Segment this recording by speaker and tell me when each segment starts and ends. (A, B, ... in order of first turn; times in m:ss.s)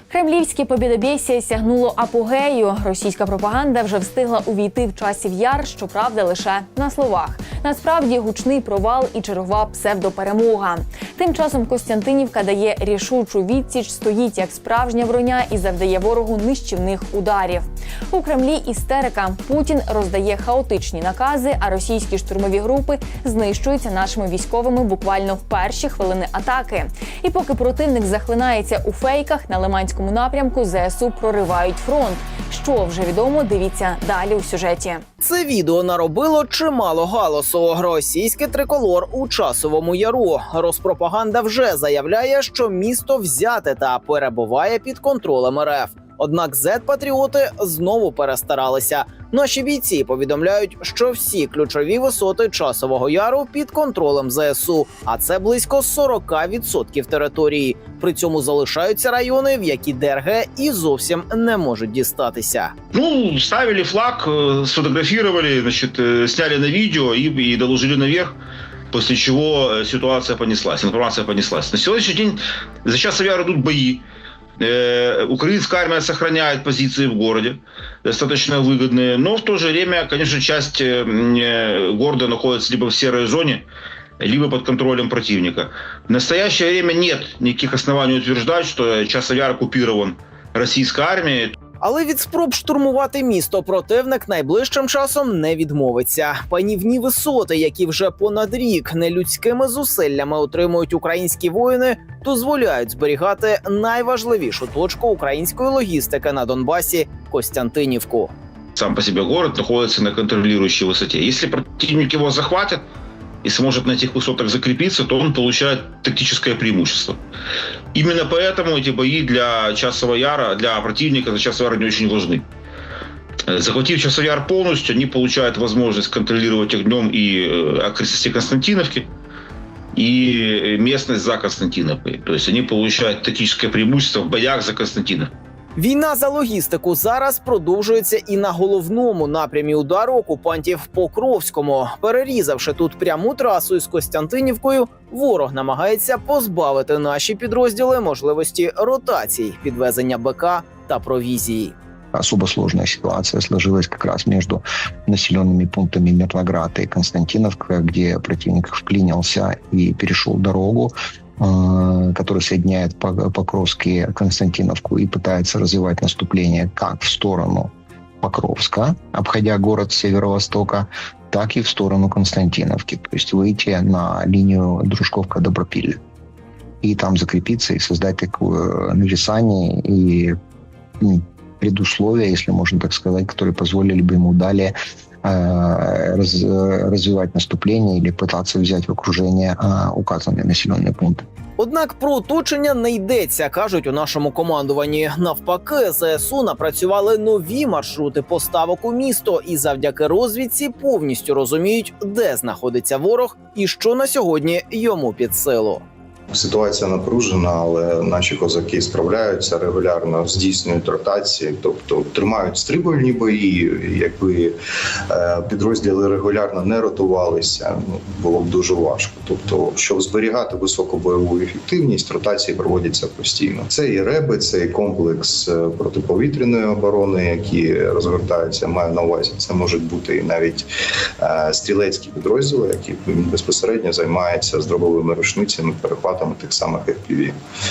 0:00.1-0:35.0 A
0:35.2-1:02.8 B
1:02.9-1:08.4 C
1:08.9-1:14.0 C
1:14.6-1:23.7 C
1:24.2-1:31.6 C
1:31.8-1:48.3 B
1:48.8-1:52.8 C
1:53.4-1:57.2 C
1:57.9-2:02.4 C
2:03.5-2:09.1 C
2:10.0-2:15.3 C
2:15.8-2:31.7 B
2:32.1-2:56.0 D
2:56.8-3:00.4 D
3:01.0-3:11.2 D
3:11.6-3:25.8 B
3:26.3-3:34.6 E
3:35.1-3:50.7 E
3:51.2-3:57.4 E